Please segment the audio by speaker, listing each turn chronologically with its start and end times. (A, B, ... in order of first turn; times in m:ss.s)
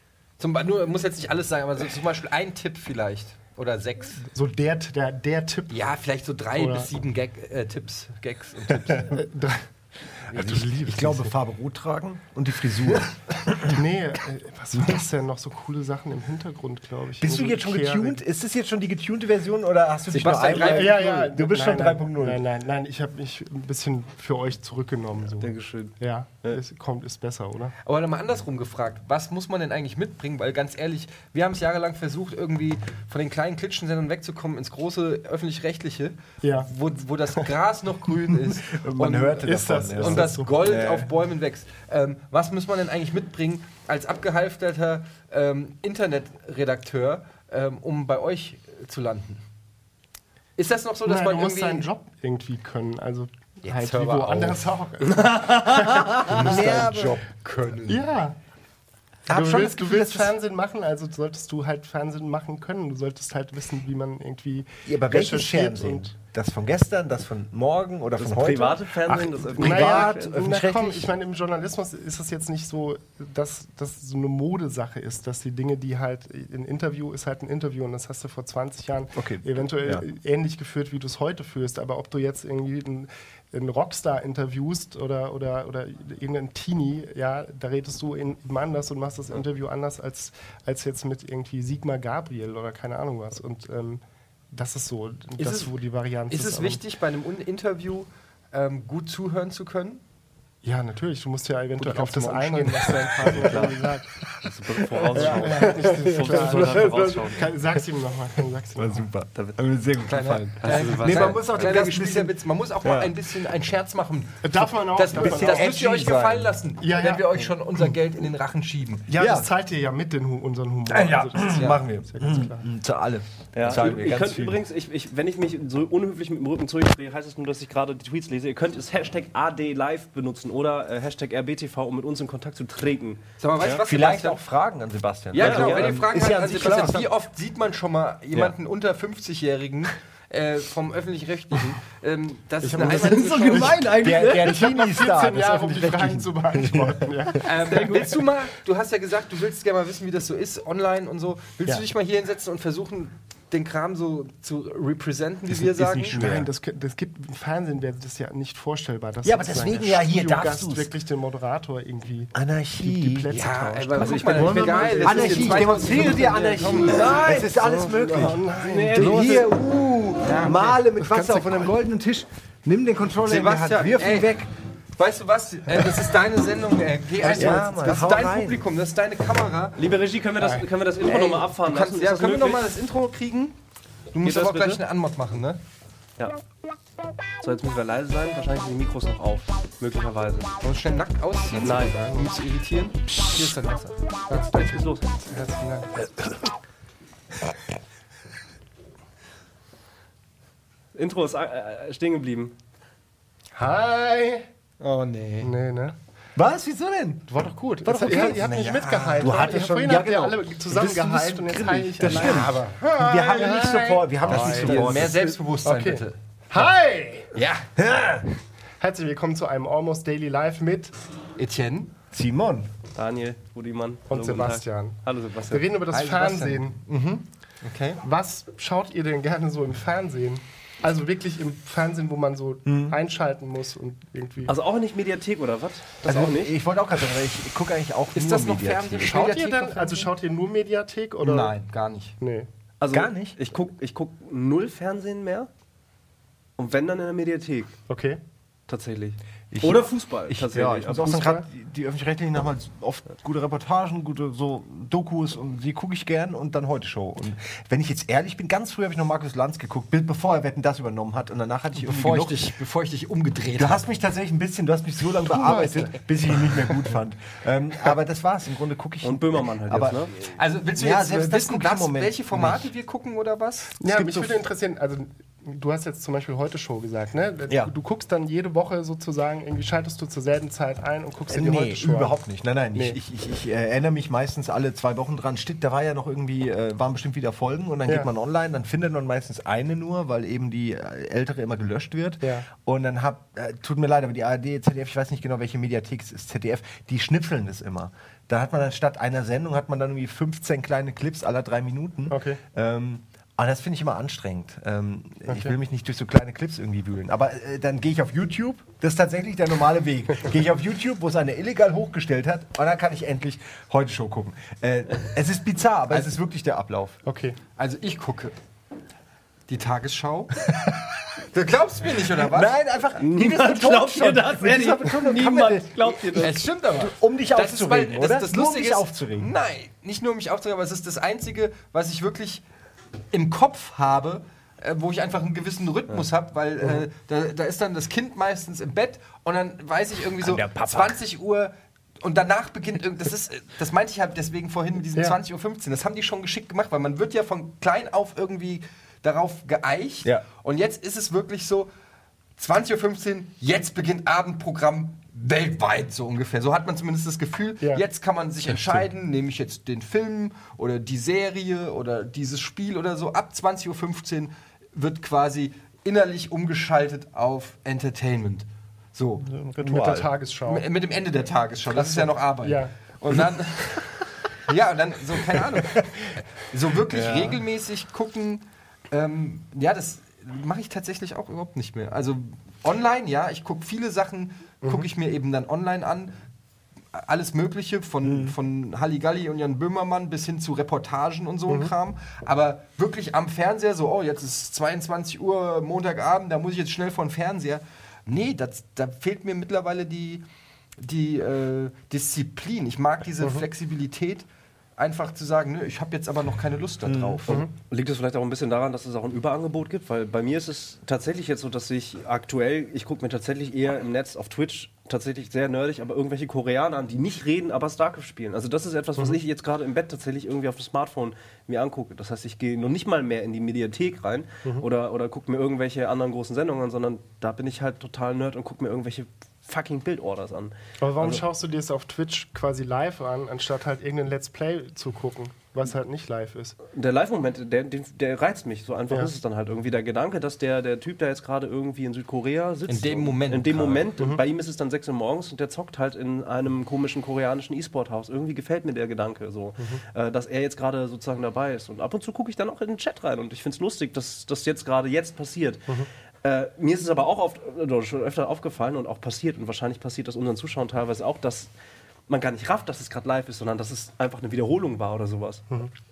0:00.4-0:04.2 A
0:04.3-0:05.8 B
0:05.7-0:09.2 A
0:06.6-0:06.9 B
0:09.1-0:11.4 B
0:10.3-0:13.8 C
0:13.6-0:18.2 B
0:17.2-0:22.4 C
0:20.1-0:21.0 A
0:20.5-0:27.8 B
0:25.4-0:26.6 D
0:27.8-0:49.4 A
0:36.4-0:36.7 B
0:38.3-0:41.1 C
0:39.4-0:40.5 B
0:50.6-0:51.9 A
0:51.0-0:57.0 B
0:53.6-0:54.6 A
0:55.1-0:56.2 D
0:56.2-0:57.2 C
0:56.4-0:58.0 A
0:57.9-0:58.4 B
0:59.3-1:00.3 C
0:59.3-1:06.1 B
1:04.8-1:11.1 C
1:08.2-1:10.3 D
1:09.6-1:36.8 B
1:19.2-1:20.0 C
1:35.4-1:35.7 A
1:36.3-1:40.0 A
1:40.6-1:44.1 B
1:41.8-1:43.7 C
1:41.9-1:42.4 A
1:43.5-1:43.7 D
1:44.4-1:47.4 D
1:45.0-1:47.3 C
1:45.2-1:49.1 B
1:48.8-1:53.1 C
1:49.3-1:49.6 D
1:50.1-1:59.1 A
1:50.6-1:51.8 D
1:54.4-1:55.7 B
1:55.1-1:56.5 C
1:56.8-1:57.5 B
1:59.1-2:02.7 B
1:59.2-1:59.5 C
2:00.9-2:04.6 C
2:01.5-2:01.8 A
2:03.5-2:13.8 D
2:13.4-2:14.4 A
2:13.6-2:17.1 C
2:15.3-2:23.8 A
2:15.4-2:16.0 D
2:16.1-2:16.9 B
2:22.6-2:23.8 B
2:22.8-2:24.6 D
2:23.5-2:27.4 C
2:24.4-2:28.2 B
2:27.4-2:36.2 A
2:35.5-2:36.5 C
2:36.1-2:49.4 B
2:39.2-2:40.9 C
2:42.3-2:43.3 C
2:43.3-2:47.2 A
2:44.0-2:45.3 D
2:45.0-2:48.4 C
2:46.8-2:49.5 D
2:48.9-2:54.5 C
2:50.1-2:50.8 A
2:50.9-2:51.7 B
2:53.2-2:54.4 A
2:55.0-2:59.8 A
2:57.2-2:58.0 B
2:57.2-2:58.6 C
2:59.8-3:02.6 D
3:00.4-3:00.7 B
3:01.0-3:03.6 A
3:04.1-3:05.6 A
3:04.2-3:04.8 D
3:07.4-3:10.6 D
3:10.6-3:14.0 A
3:11.6-3:12.0 D
3:11.7-3:12.3 B
3:14.3-3:16.3 B
3:14.5-3:15.0 D
3:20.9-3:22.5 D
3:23.6-3:24.5 B
3:24.8-3:25.5 A
3:25.4-3:26.0 B
3:26.4-3:27.2 C
3:27.3-3:37.3 B
3:27.8-3:35.2 C
3:28.1-3:29.3 A
3:32.0-3:33.3 A
3:34.3-3:36.2 A
3:37.3-3:37.7 A
3:37.8-3:38.2 C
3:38.8-3:40.9 B
3:41.4-3:41.9 A
3:42.1-3:42.7 C
3:43.0-3:45.7 D
3:44.1-3:46.8 B
3:45.9-3:48.0 A
3:48.0-3:54.5 B
3:52.7-3:53.0 C
3:54.5-3:56.6 D
3:56.0-3:59.2 C
3:58.2-4:00.1 A
3:59.0-4:01.5 B
4:01.2-4:02.2 A
4:02.2-4:02.5 B
4:02.8-4:05.5 D
4:02.9-4:03.4 C
4:06.6-4:07.7 D
4:07.9-4:08.2 B
4:08.7-4:11.2 D
4:09.5-4:22.4 C
4:11.0-4:11.5 B
4:21.8-4:23.8 A
4:23.6-4:32.7 C
4:25.3-4:26.0 B
4:29.0-4:30.1 D
4:30.3-4:33.8 A
4:33.8-4:42.2 B
4:33.9-4:34.3 C
4:41.3-5:17.0 C
4:52.2-4:52.5 B
5:02.1-5:02.4 B
5:05.3-5:05.5 B
5:17.0-5:17.4 B
5:17.6-5:18.4 A
5:19.5-5:20.4 A
5:20.5-5:20.9 C
5:21.3-5:22.5 A
5:22.0-5:29.3 C
5:23.0-5:26.4 D
5:26.2-5:32.4 A
5:33.1-5:51.7 A
5:40.2-5:41.0 C
5:52.4-6:09.2 A
5:58.5-5:58.8 C
6:09.2-6:10.1 C
6:09.6-6:10.7 B
6:10.4-6:26.1 A
6:11.8-6:12.7 B
6:15.2-6:16.1 C
6:16.9-6:17.4 C
6:24.6-6:24.9 B
6:26.9-6:40.2 A
6:28.0-6:28.4 C
6:40.8-6:44.2 A
6:44.8-6:47.4 A
6:46.8-6:47.2 C
6:47.6-7:11.2 D
7:10.8-7:16.6 B
7:16.7-7:35.7 D
7:22.7-7:24.0 A
7:24.0-7:24.2 B
7:36.2-7:41.5 D
7:42.1-7:45.4 D